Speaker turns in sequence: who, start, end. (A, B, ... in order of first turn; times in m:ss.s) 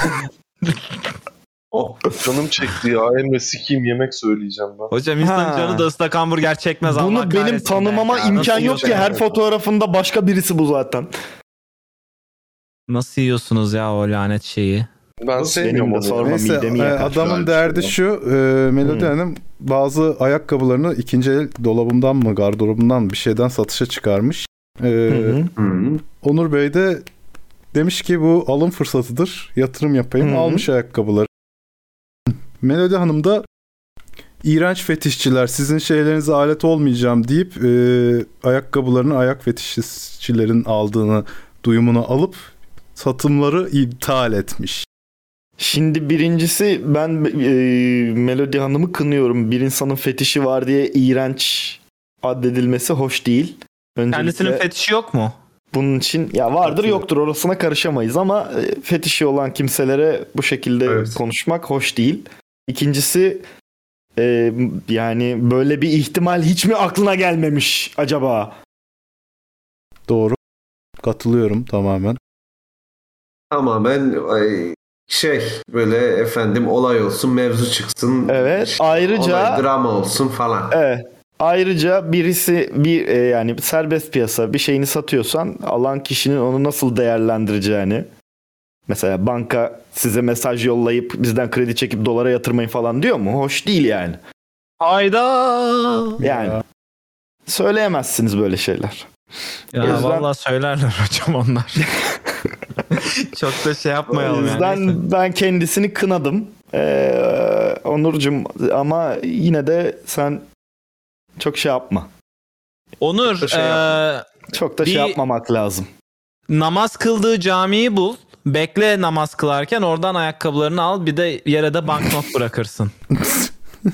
0:01.7-0:02.0 A
0:02.2-0:04.9 B
0:04.9-0:09.2 C
0:05.2-0:05.9 D
0:06.8-0:11.1 D
0:12.9-0:14.9 C
0:15.2-0:16.3 B
0:15.4-0:17.7 D
0:16.2-0:25.4 E
0:18.8-0:19.1 D
0:25.1-0:25.5 D
0:25.6-0:26.0 A
0:26.2-0:27.1 E
0:27.7-0:31.3 E
0:30.2-0:30.7 D
0:32.6-0:33.4 E
0:34.4-0:44.9 E
0:45.6-0:54.6 D
0:54.1-0:55.4 C
0:55.7-1:03.4 D
1:00.8-1:01.2 A
1:04.2-1:08.6 D
1:10.1-1:10.4 E
1:11.0-1:12.2 E
1:13.5-1:20.8 A
1:18.3-1:19.6 D
1:20.7-1:28.1 D
1:28.9-1:34.2 D
1:34.8-1:36.2 C
1:36.2-1:36.6 D
1:36.2-1:36.6 E
1:37.5-1:39.1 D
1:39.7-1:41.8 C
1:39.8-1:40.3 D
1:41.8-1:42.5 D
1:42.9-1:45.0 C
1:44.1-1:50.4 D
1:51.4-1:52.1 D
1:53.0-1:54.3 C
1:53.4-1:54.0 A
1:54.5-1:55.9 D
1:54.8-1:55.2 C
1:56.5-2:02.9 C
2:03.2-2:03.5 E